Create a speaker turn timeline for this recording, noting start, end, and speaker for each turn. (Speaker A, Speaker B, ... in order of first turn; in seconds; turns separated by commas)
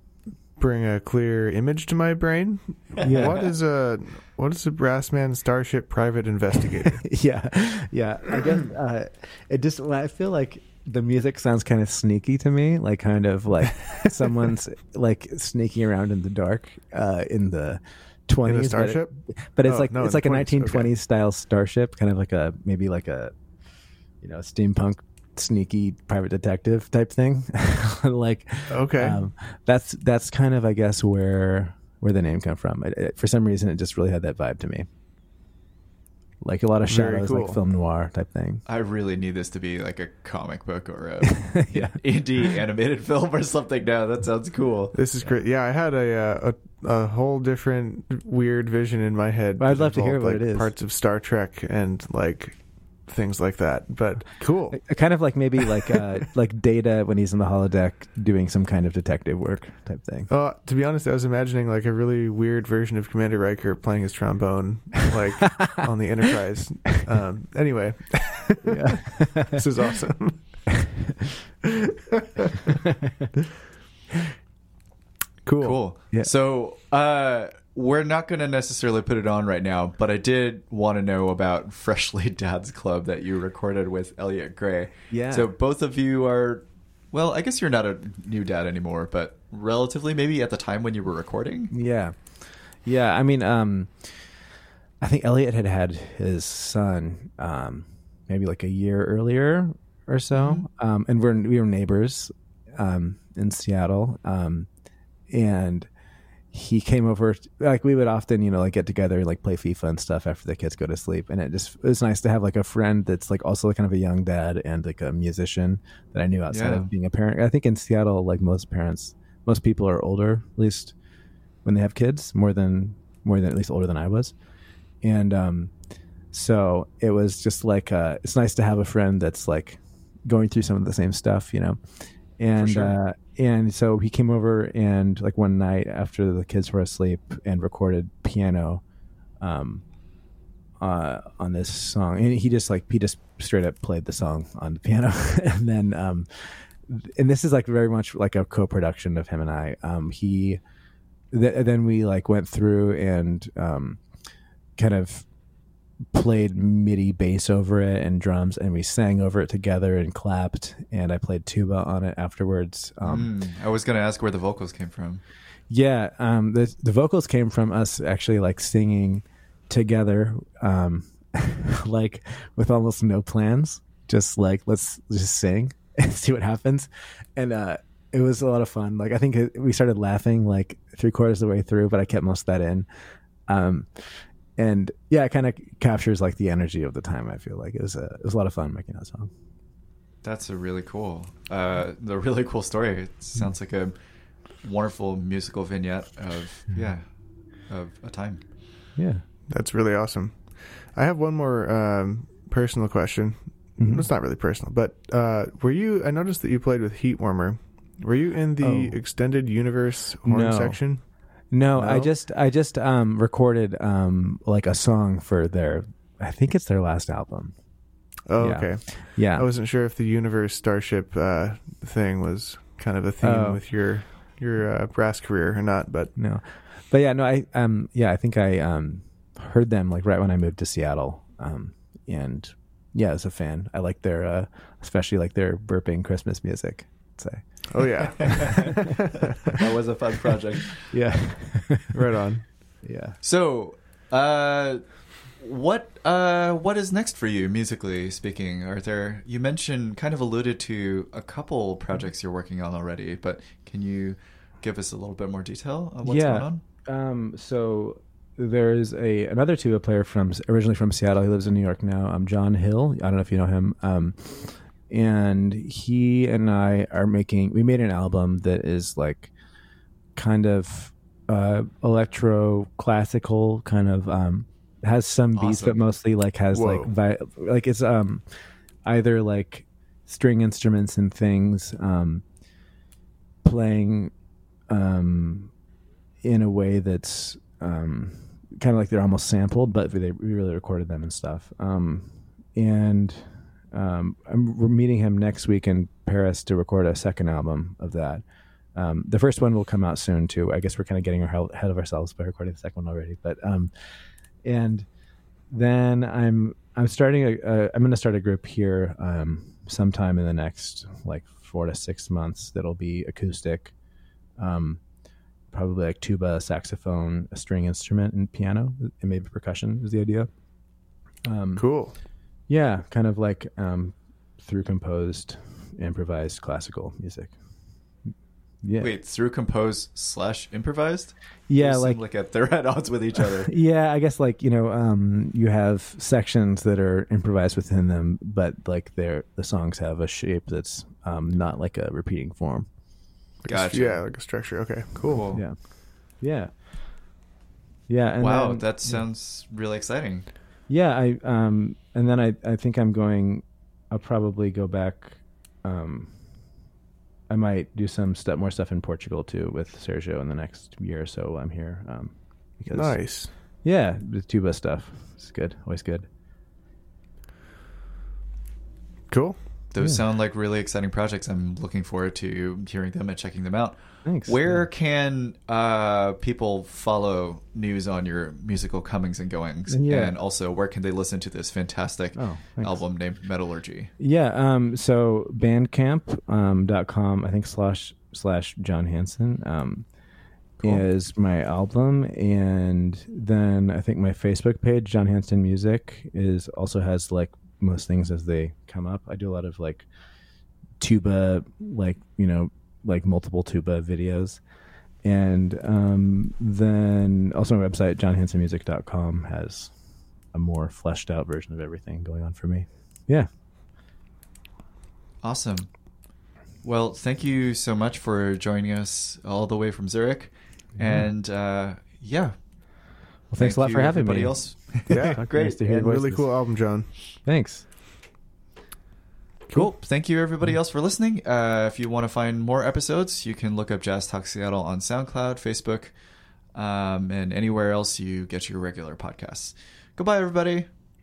Speaker A: 0.6-7.0, Speaker B: 3.0-3.4, Speaker B: 7.0-23.3, Speaker A: 18.4-20.9, Speaker B: 24.2-34.9, Speaker A: 28.7-29.2, Speaker B: 36.4-38.6, Speaker A: 36.9-37.6, Speaker C: 38.6-44.9, Speaker B: 41.5-42.0, Speaker A: 44.9-54.8, Speaker B: 49.6-50.7, Speaker B: 54.7-60.3, Speaker A: 60.3-70.7, Speaker B: 68.6-69.6, Speaker A: 72.1-72.7, Speaker A: 75.5-75.8, Speaker C: 75.6-91.7, Speaker B: 85.1-85.5, Speaker B: 91.7-94.4, Speaker B: 95.0-104.7, Speaker C: 100.3-100.6, Speaker B: 105.3-105.9, Speaker B: 106.5-120.9, Speaker C: 116.5-116.9, Speaker B: 121.6-124.3, Speaker B: 125.0-125.7, Speaker B: 126.3-138.8, Speaker C: 132.6-132.9, Speaker B: 139.4-139.8, Speaker B: 140.8-150.6, Speaker B: 151.3-154.0, Speaker B: 154.8-155.3, Speaker B: 156.1-163.3, Speaker C: 163.0-165.2, Speaker B: 165.7-182.9, Speaker B: 183.5-189.3, Speaker C: 190.2-194.0, Speaker C: 194.6-198.4, Speaker B: 198.9-199.2, Speaker A: 199.5-211.0, Speaker B: 203.8-204.1, Speaker B: 208.6-209.0, Speaker B: 210.2-210.8, Speaker B: 211.5-217.5, Speaker A: 211.7-212.1, Speaker A: 218.3-226.1, Speaker B: 218.4-219.5, Speaker B: 223.2-223.6, Speaker B: 226.2-238.9, Speaker A: 237.7-239.3, Speaker C: 238.2-240.9, Speaker B: 240.9-242.0, Speaker A: 241.9-242.5, Speaker B: 242.8-243.2, Speaker C: 243.2-256.6, Speaker B: 256.0-269.3, Speaker B: 270.1-278.2, Speaker C: 275.3-275.8, Speaker A: 276.5-276.9, Speaker B: 278.8-282.2, Speaker B: 283.4-284.1, Speaker B: 284.7-285.5, Speaker B: 286.2-303.7, Speaker B: 304.4-304.9, Speaker B: 305.5-313.7, Speaker B: 314.4-314.8, Speaker B: 315.5-320.3, Speaker B: 321.2-321.6, Speaker A: 321.6-321.9, Speaker B: 322.5-327.3, Speaker B: 328.6-328.9, Speaker C: 328.8-333.5, Speaker B: 331.5-332.0, Speaker B: 333.4-342.7, Speaker A: 343.4-345.3, Speaker C: 343.5-344.0, Speaker C: 345.1-345.4, Speaker B: 345.3-346.5, Speaker B: 347.9-349.0, Speaker C: 348.2-350.3, Speaker B: 350.7-356.1, Speaker B: 357.3-366.1, Speaker A: 362.6-363.3, Speaker A: 369.1-369.4, Speaker C: 369.7-383.9, Speaker B: 374.0-374.7, Speaker B: 379.7-380.1, Speaker B: 382.1-382.8, Speaker B: 384.0-389.9, Speaker B: 390.6-399.9, Speaker B: 400.8-404.4, Speaker B: 405.0-409.7, Speaker B: 410.3-413.3, Speaker C: 415.2-415.8, Speaker C: 416.6-422.4, Speaker B: 420.8-421.1, Speaker B: 423.3-426.3, Speaker C: 423.4-425.6, Speaker A: 424.9-426.9, Speaker B: 427.2-427.7, Speaker C: 429.5-435.9, Speaker C: 436.5-440.7